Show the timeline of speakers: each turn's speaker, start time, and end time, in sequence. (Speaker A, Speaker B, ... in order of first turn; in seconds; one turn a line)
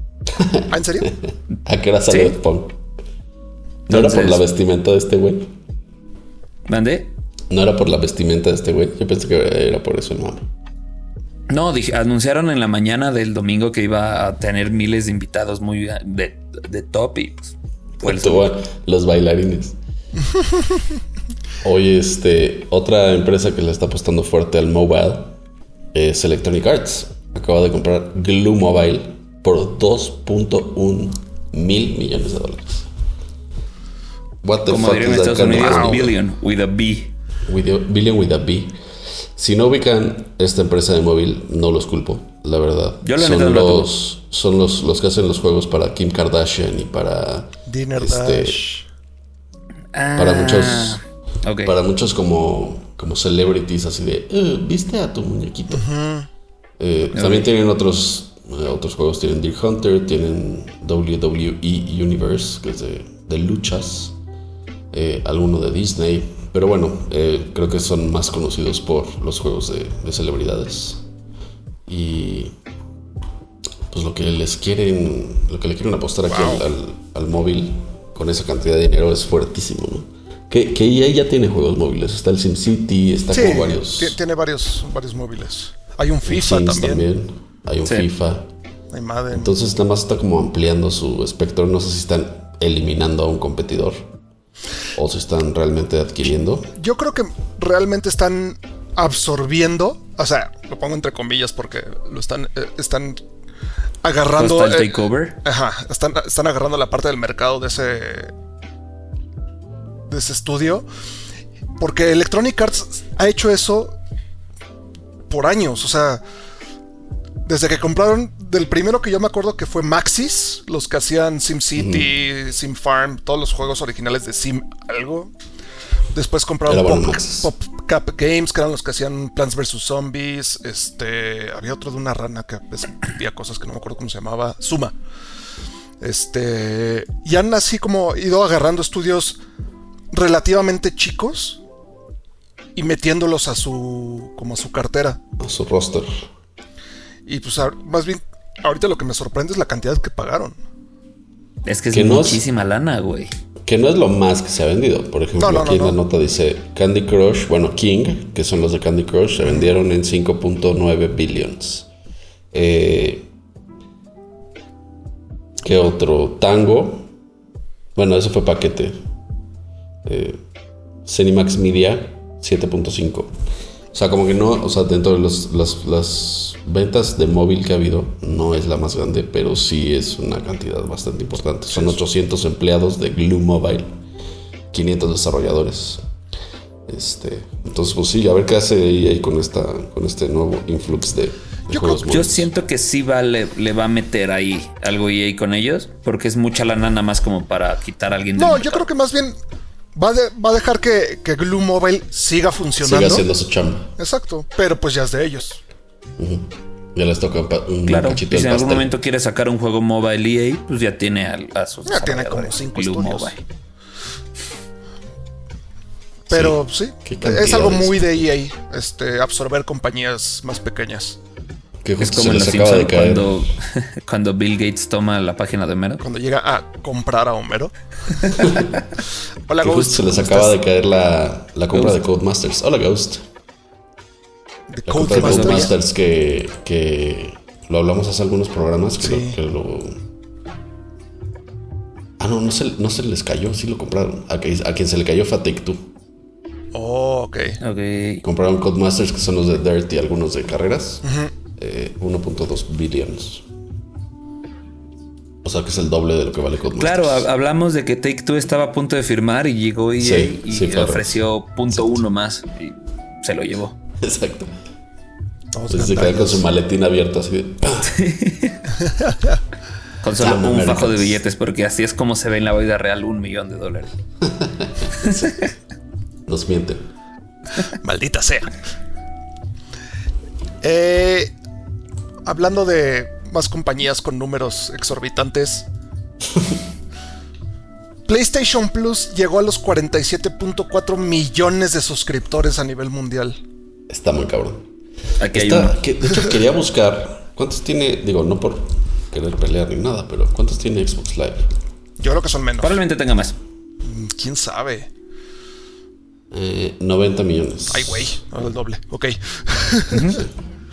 Speaker A: 0.3-2.8
Speaker B: 0.7-1.1
Speaker C: 2.1-2.3
Speaker A: 3.9-5.5
Speaker C: 3.9-4.4
Speaker C: 6.7-7.1
Speaker A: 7.5-10.5
Speaker C: 11.5-18.5
Speaker A: 18.0-19.8
Speaker B: 20.3-20.7
Speaker A: 21.6-25.4
Speaker A: 25.9-32.9
Speaker A: 34.4-36.2
Speaker C: 34.6-37.1
Speaker B: 35.5-36.0
Speaker A: 37.5-38.8
Speaker A: 39.4-48.6
Speaker C: 43.0-43.9
Speaker B: 47.7-48.8
Speaker C: 49.9-51.7
Speaker A: 50.1-51.0
Speaker A: 51.6-55.9
Speaker B: 55.7-56.3
Speaker A: 56.8-64.1
Speaker C: 57.1-57.5
Speaker A: 64.9-71.0
Speaker A: 71.9-72.5
Speaker A: 73.9-84.2
Speaker B: 76.3-76.6
Speaker B: 83.3-87.1
Speaker A: 86.2-88.5
Speaker B: 88.9-89.6
Speaker A: 89.3-94.1
Speaker A: 94.9-96.7
Speaker B: 96.7-103.2
Speaker B: 104.0-108.3
Speaker C: 104.3-105.4
Speaker B: 110.1-110.8
Speaker B: 111.8-114.0
Speaker B: 115.3-116.2
Speaker B: 117.5-125.3
Speaker A: 121.8-122.1
Speaker B: 126.1-134.9
Speaker A: 126.7-127.5
Speaker B: 136.0-139.4
Speaker B: 140.1-141.6
Speaker B: 142.8-145.2
Speaker A: 145.4-146.2
Speaker B: 147.3-150.6
Speaker C: 151.6-153.3
Speaker A: 151.9-152.4
Speaker A: 153.6-161.9
Speaker B: 155.4-156.0
Speaker B: 159.4-159.7
Speaker A: 162.5-163.3
Speaker A: 165.6-167.1
Speaker A: 167.9-168.9
Speaker A: 170.0-170.4
Speaker A: 171.1-173.3
Speaker A: 173.9-184.0
Speaker B: 181.7-182.0
Speaker A: 184.7-186.0
Speaker A: 186.9-192.5
Speaker B: 191.7-192.1
Speaker C: 192.1-198.8
Speaker B: 198.4-199.4
Speaker B: 199.9-203.3
Speaker A: 202.8-203.9
Speaker B: 204.0-205.6
Speaker A: 206.2-208.9
Speaker C: 207.9-213.4
Speaker B: 211.8-213.3
Speaker A: 216.3-218.2
Speaker B: 216.3-221.2
Speaker A: 221.8-223.4
Speaker C: 222.0-226.0
Speaker B: 226.0-228.6
Speaker A: 228.4-228.7
Speaker B: 229.5-230.6
Speaker A: 229.6-233.2
Speaker C: 231.7-232.0
Speaker B: 234.7-235.7
Speaker A: 234.9-240.0
Speaker C: 235.1-235.7
Speaker B: 239.0-239.4
Speaker A: 242.2-245.9
Speaker B: 246.7-247.6
Speaker C: 247.6-248.2
Speaker A: 248.2-251.0
Speaker B: 251.0-251.3
Speaker A: 251.6-253.4
Speaker A: 255.4-257.3
Speaker C: 256.8-263.8
Speaker A: 260.0-261.2
Speaker A: 261.7-262.0
Speaker A: 264.0-264.5
Speaker B: 265.5-266.4
Speaker A: 265.7-268.0
Speaker C: 267.8-268.7
Speaker B: 269.0-269.4
Speaker C: 270.0-273.9
Speaker A: 270.2-271.2
Speaker A: 274.2-275.3
Speaker C: 275.0-275.5
Speaker A: 276.2-276.8
Speaker B: 277.6-278.5
Speaker B: 280.6-281.3
Speaker B: 282.2-285.7
Speaker B: 288.1-293.4
Speaker A: 293.9-294.6
Speaker C: 295.2-295.8
Speaker A: 295.3-301.5
Speaker B: 302.0-302.8
Speaker C: 302.6-303.4
Speaker B: 303.8-304.9
Speaker A: 306.3-308.2
Speaker B: 307.7-310.2
Speaker C: 309.9-310.2